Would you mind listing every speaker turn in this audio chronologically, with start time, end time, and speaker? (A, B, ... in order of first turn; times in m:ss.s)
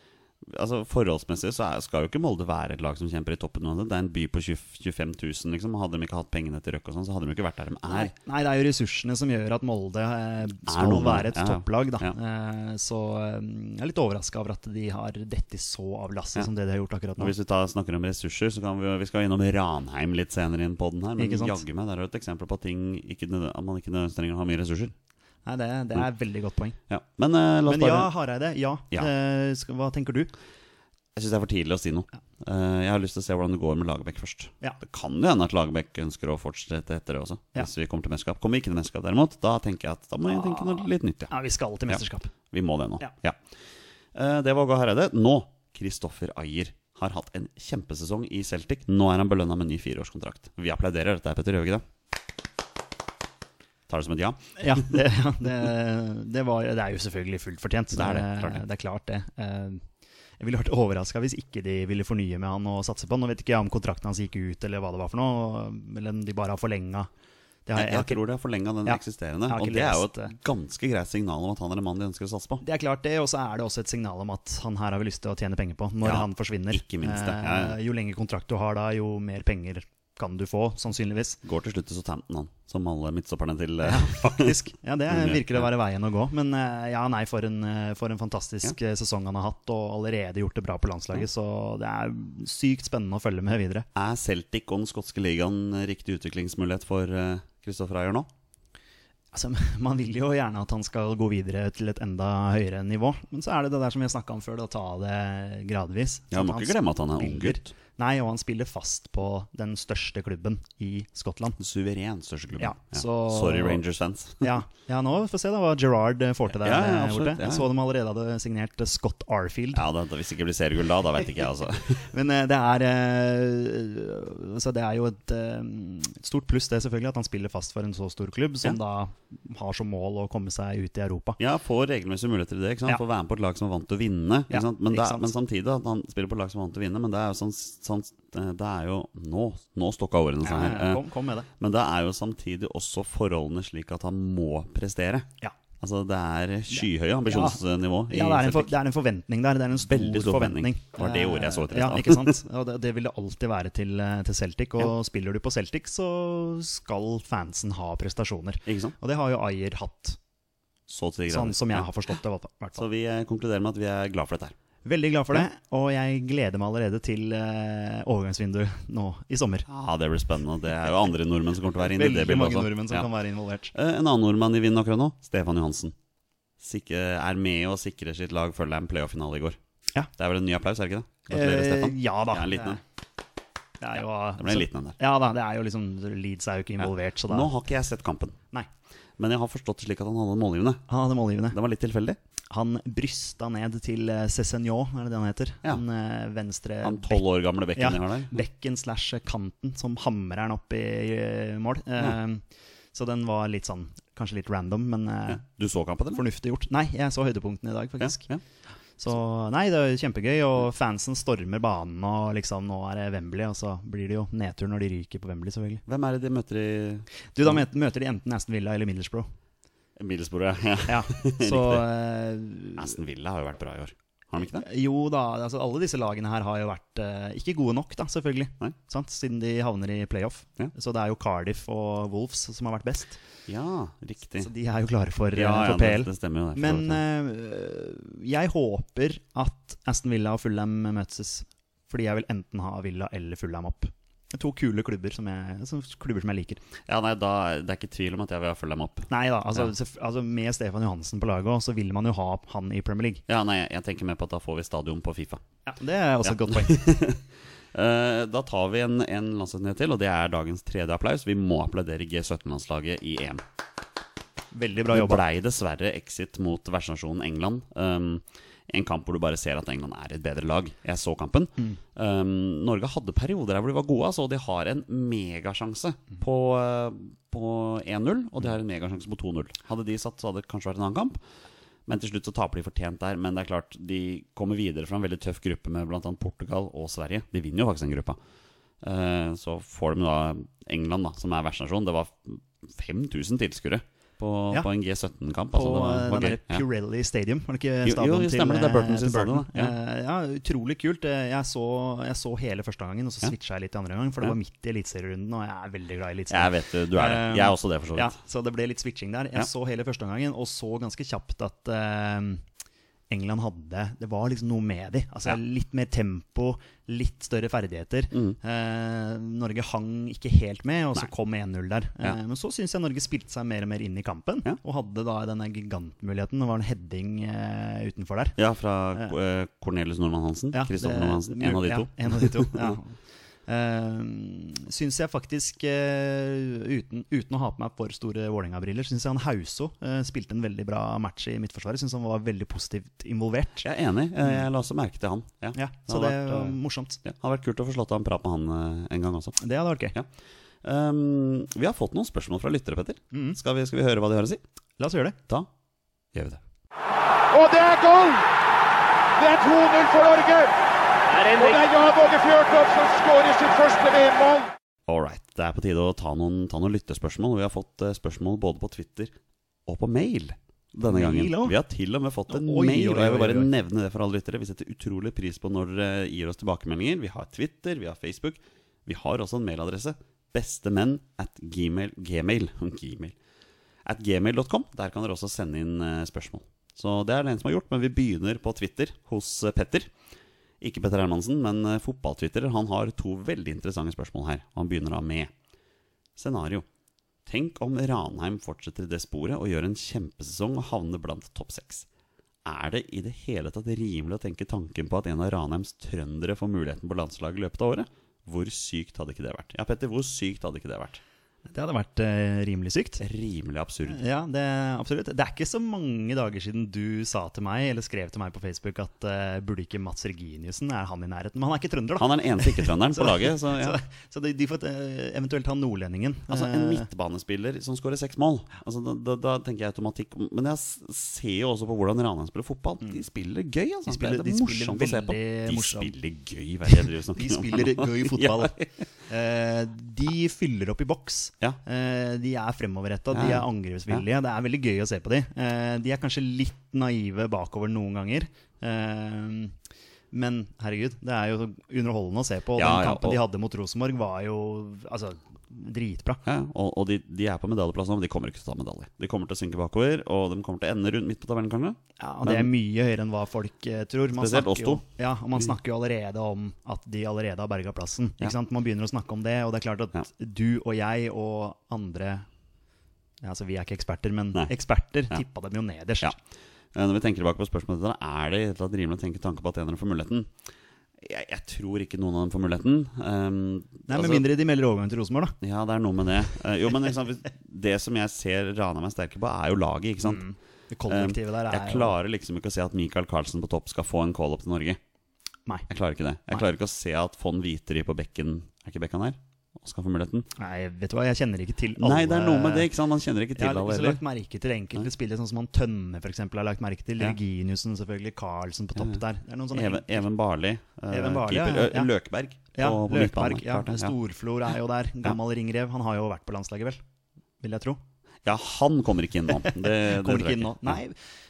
0:00.4-0:08.1 A
0:07.9-0:17.3 B
0:10.6-0:12.2 A
0:17.2-0:24.9 A
0:21.2-0:21.6 B
0:25.5-0:26.8 B
0:26.9-0:28.1 A
0:27.7-0:30.3 B
0:31.2-0:41.3 A
0:41.3-0:42.3 B
0:42.5-0:43.4 A
0:44.1-0:51.8 A
0:53.9-0:54.9 A
0:54.6-0:59.8 B
0:57.9-0:58.6 A
1:00.4-1:07.1 B
1:07.7-1:08.2 B
1:07.8-1:12.6 A
1:08.9-1:10.3 B
1:12.6-1:21.4 B
1:16.0-1:17.8 A
1:21.4-1:24.6 A
1:23.8-1:33.9 B
1:25.1-1:25.7 A
1:34.0-1:38.3 A
1:39.3-1:51.6 B
1:46.3-1:47.7 A
1:51.6-1:54.6 A
1:52.6-1:53.8 B
1:54.4-1:59.8 B
1:56.6-1:57.7 A
1:59.8-2:02.0 A
2:02.1-2:11.4 B
2:11.4-2:21.0 A
2:14.5-2:15.3 B
2:20.4-2:21.5 B
2:21.6-2:25.3 A
2:25.8-2:28.7 A
2:26.8-2:40.2 B
2:29.8-2:32.4 A
2:38.7-2:39.0 A
2:40.9-2:41.9 A
2:41.3-2:42.8 B
2:42.8-2:44.6 A
2:44.8-2:49.7 B
2:49.7-2:53.1 A
2:51.8-2:53.7 B
2:53.7-2:56.0 A
2:56.6-2:59.6 A
3:00.2-3:02.8 A
3:01.3-3:02.8 B
3:03.8-3:07.5 B
3:04.4-3:05.0 A
3:06.8-3:08.4 A
3:09.2-3:10.8 A
3:10.9-3:11.6 B
3:11.5-3:12.2 A
3:12.5-3:22.4 B
3:16.8-3:18.4 A
3:22.9-3:25.4 B
3:25.3-3:26.2 A
3:26.1-3:28.3 B
3:28.0-3:28.4 A
3:29.0-3:35.8 B
3:35.9-3:37.6 A
3:37.4-3:39.3 B
3:40.0-3:41.9 A
3:40.9-3:42.9 B
3:42.8-3:44.6 A
3:44.5-3:53.2 B
3:53.5-3:54.5 A
3:54.4-4:06.6 B
3:55.3-3:57.0 A
4:06.9-4:09.7 A
4:09.1-4:13.2 B
4:13.3-4:15.4 A
4:15.7-4:17.1 B
4:16.2-4:23.4 A
4:24.5-4:25.2 B
4:24.9-4:41.2 A
4:41.9-4:48.2 A
4:48.8-4:56.6 A
4:55.5-5:12.4 B
4:57.8-4:59.7 A
5:06.3-5:08.2 A
5:13.1-5:28.4 B
5:28.4-5:32.8 A
5:30.5-5:33.0 B
5:33.5-5:43.7 B
5:43.6-5:49.4 A
5:45.6-5:47.0 B
5:49.4-5:50.0 B
5:50.6-5:54.4 A
5:53.1-5:53.4 B
5:54.8-5:55.2 B
5:56.1-5:56.4 A
5:57.3-5:58.3 C
5:59.2-6:00.6 C
6:01.1-6:04.5 C
6:04.9-6:09.2 A
6:09.7-6:23.2 A
6:10.8-6:11.6 B
6:12.3-6:13.5 B
6:23.8-6:29.9 A
6:30.6-6:35.3 A
6:36.2-6:36.7 A
6:37.3-6:41.9 A
6:42.4-6:51.0 A
6:51.5-6:53.0 B
6:53.0-6:54.0 A
6:53.9-7:06.9 B
7:02.0-7:03.8 A
7:06.3-7:18.8 A
7:13.9-7:15.9 B
7:16.7-7:29.6 B
7:23.1-7:24.0 A
7:30.1-7:36.2 B
7:32.6-7:33.2 A
7:36.2-7:42.5 A
7:42.0-7:52.3 B
7:44.2-7:44.8 A
7:53.2-7:56.2 B
7:56.7-8:00.3 A
8:01.0-8:04.3 A
8:03.9-8:05.4 B
8:05.4-8:10.2 A
8:10.0-8:12.0 B
8:10.9-8:14.8 A
8:15.7-8:20.3 A
8:20.4-8:22.7 B
8:21.8-8:24.0 A
8:23.4-8:30.1 B
8:28.8-8:29.0 A
8:29.5-8:34.0 A
8:30.9-8:31.9 B
8:32.6-8:36.8 B
8:37.4-8:37.8 B
8:38.2-8:40.8 A
8:39.5-8:41.0 B